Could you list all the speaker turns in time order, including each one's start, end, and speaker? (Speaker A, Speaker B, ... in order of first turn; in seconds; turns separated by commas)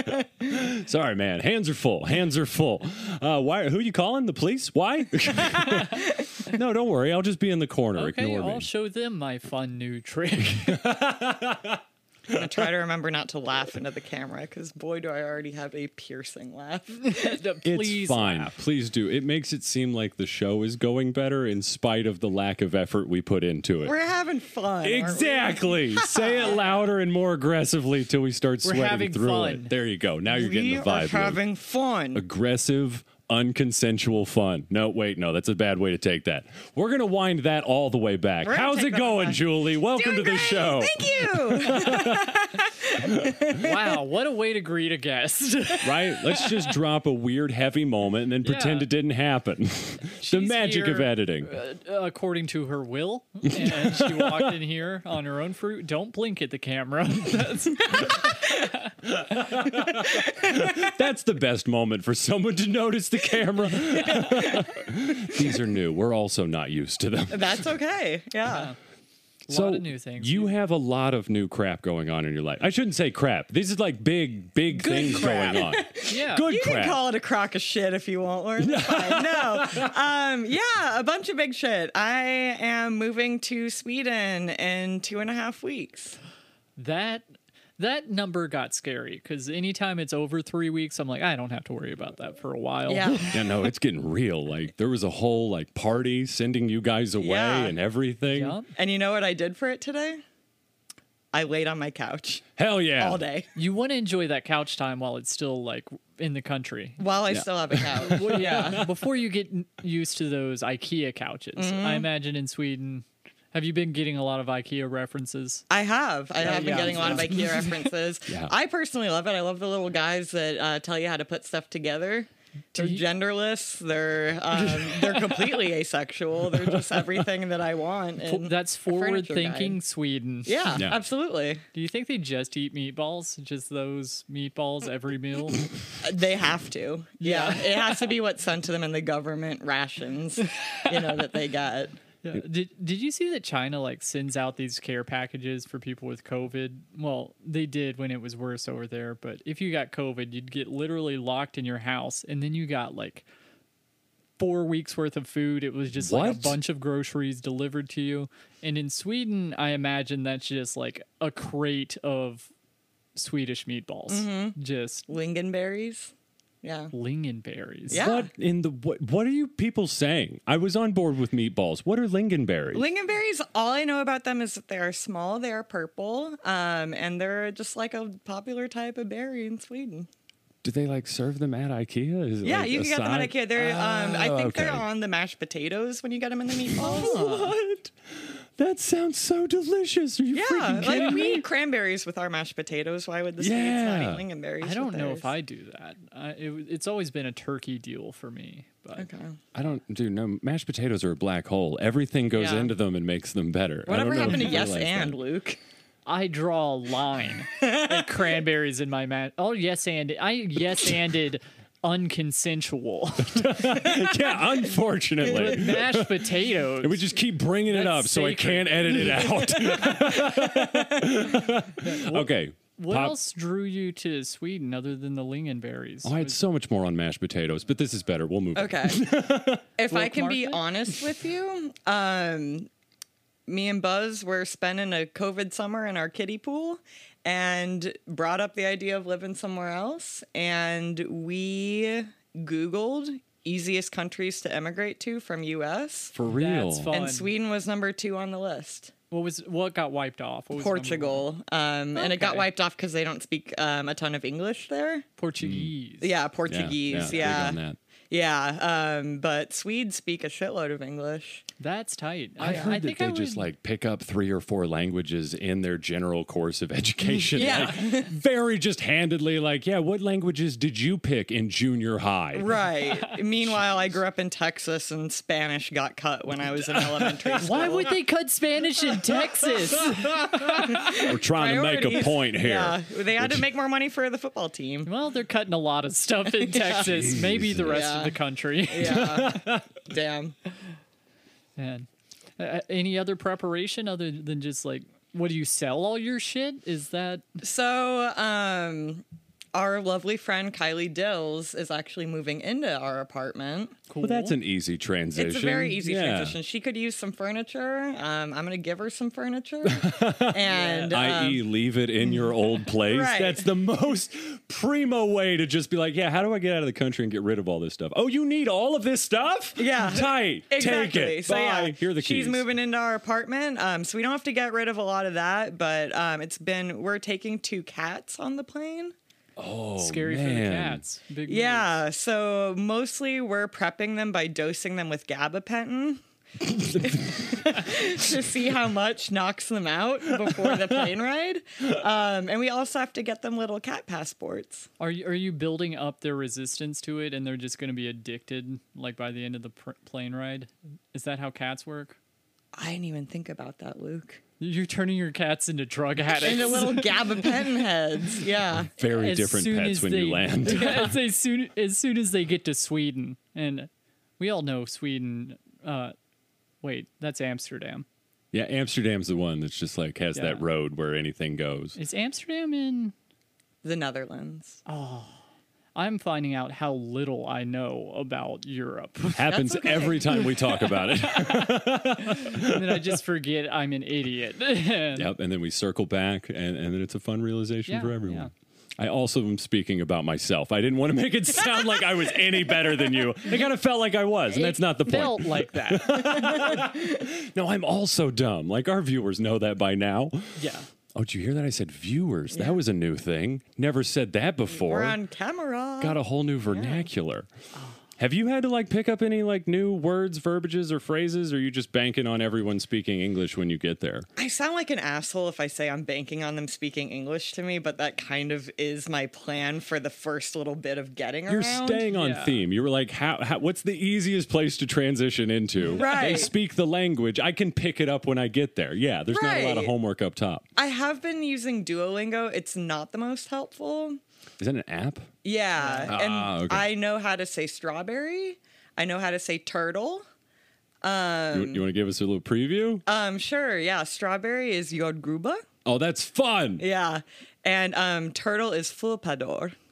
Speaker A: 0.4-8.7, Speaker B: 8.0-10.9, Speaker A: 10.6-12.7, Speaker C: 12.3-17.4, Speaker B: 17.0-18.6, Speaker A: 17.6-23.9, Speaker C: 23.8-26.6, Speaker A: 24.8-31.4, Speaker B: 28.6-29.7, Speaker C: 30.3-32.2, Speaker A: 32.1-43.5, Speaker C: 38.4-43.8, Speaker B: 43.5-46.7, Speaker A: 45.8-51.5, Speaker B: 48.4-48.9, Speaker B: 50.2-58.9, Speaker A: 53.5-54.5, Speaker A: 59.0-67.6, Speaker C: 60.1-60.9, Speaker C: 64.1-64.7, Speaker C: 67.3-68.7, Speaker B: 68.5-68.8, Speaker B: 69.5-70.5, Speaker A: 69.5-77.0, Speaker B: 74.7-76.5, Speaker C: 75.5-86.2, Speaker A: 78.6-79.9, Speaker B: 86.8-93.5, Speaker C: 92.9-93.5, Speaker A: 93.3-98.6, Speaker C: 97.2-97.8, Speaker B: 98.3-98.7, Speaker C: 98.8-100.2, Speaker C: 101.3-103.5, Speaker A: 102.6-103.2, Speaker B: 103.5-107.0, Speaker C: 107.0-108.9, Speaker A: 107.3-108.8, Speaker B: 108.0-115.7, Speaker C: 111.6-112.1, Speaker C: 115.7-129.8, Speaker B: 116.4-117.9, Speaker B: 122.8-123.0, Speaker B: 124.8-125.4, Speaker A: 126.5-127.1, Speaker B: 128.2-130.8, Speaker C: 130.5-131.6, Speaker B: 131.7-135.7, Speaker C: 136.0-142.0, Speaker B: 137.2-138.1, Speaker B: 142.2-153.3, Speaker B: 154.4-162.5, Speaker A: 155.9-156.6, Speaker B: 163.2-165.1, Speaker C: 164.1-164.6, Speaker C: 165.1-166.1, Speaker C: 166.6-166.9, Speaker B: 166.9-168.1, Speaker A: 167.9-172.8, Speaker C: 167.9-168.3, Speaker C: 172.7-180.1, Speaker A: 180.6-184.8, Speaker C: 182.4-187.8, Speaker A: 186.7-187.6, Speaker B: 186.8-187.5, Speaker A: 188.2-191.4, Speaker C: 190.3-195.3, Speaker B: 190.9-191.3, Speaker A: 193.4-194.2, Speaker B: 194.6-199.1, Speaker C: 199.0-199.4, Speaker A: 199.5-205.2, Speaker C: 202.3-202.7, Speaker C: 203.9-205.6, Speaker B: 206.1-214.1, Speaker C: 207.6-208.3, Speaker A: 213.2-223.2, Speaker B: 215.2-219.9, Speaker C: 220.3-220.9, Speaker B: 221.8-226.4, Speaker A: 226.0-229.6, Speaker C: 228.6-229.0, Speaker C: 229.8-232.7, Speaker B: 229.9-230.7, Speaker C: 233.5-246.1, Speaker A: 246.1-246.9, Speaker B: 246.3-247.3, Speaker C: 246.9-248.9, Speaker B: 249.1-251.2, Speaker C: 250.6-255.1, Speaker B: 252.0-252.5, Speaker B: 255.2-256.1, Speaker A: 255.4-255.7, Speaker C: 256.0-261.4, Speaker A: 256.5-257.8, Speaker B: 257.0-257.3, Speaker B: 261.6-263.5, Speaker A: 262.4-272.5, Speaker C: 267.3-268.1, Speaker C: 272.4-277.9, Speaker B: 272.9-273.2, Speaker A: 273.5-274.0, Speaker A: 276.6-277.9, Speaker B: 277.4-280.6, Speaker A: 278.9-283.5, Speaker C: 280.4-284.9, Speaker B: 284.9-289.2, Speaker C: 286.5-286.9, Speaker A: 286.6-287.9, Speaker C: 287.6-290.4, Speaker A: 288.8-289.7, Speaker B: 291.6-297.4, Speaker C: 297.4-299.0, Speaker C: 299.5-303.8, Speaker B: 303.9-304.4, Speaker A: 304.0-306.4, Speaker C: 305.2-311.4, Speaker A: 309.6-322.4, Speaker B: 310.5-311.0, Speaker C: 312.2-313.5, Speaker C: 319.6-328.9, Speaker A: 329.4-330.8, Speaker B: 329.8-331.7, Speaker C: 331.3-336.0, Speaker A: 336.5-337.3, Speaker C: 336.8-344.7, Speaker B: 344.8-352.0, Speaker C: 352.6-354.2, Speaker B: 354.4-357.3, Speaker C: 356.2-358.7, Speaker A: 358.7-360.9, Speaker B: 358.9-365.9, Speaker B: 366.6-367.9, Speaker A: 368.3-371.8, Speaker B: 370.1-370.4, Speaker B: 371.8-372.9, Speaker C: 373.6-374.6, Speaker B: 374.7-375.2, Speaker B: 375.8-379.3, Speaker A: 379.1-383.0, Speaker C: 379.3-380.4, Speaker B: 380.7-385.1, Speaker A: 384.9-400.4, Speaker B: 387.7-388.3, Speaker B: 394.3-396.4, Speaker C: 396.4-396.7, Speaker B: 400.4-400.7, Speaker A: 400.9-405.0, Speaker C: 402.3-402.6, Speaker C: 404.5-406.0, Speaker A: 405.8-407.3, Speaker C: 406.5-406.9, Speaker A: 408.0-414.1, Speaker C: 414.2-421.9, Speaker A: 421.3-430.5, Speaker B: 421.9-422.4, Speaker C: 425.7-426.3, Speaker C: 429.1-429.7, Speaker C: 430.6-434.0, Speaker A: 434.4-435.1, Speaker C: 435.2-440.0, Speaker B: 435.6-435.9, Speaker A: 435.9-436.7, Speaker C: 440.8-441.6, Speaker A: 441.3-442.8, Speaker C: 442.9-445.4, Speaker A: 445.6-446.6, Speaker C: 446.6-449.6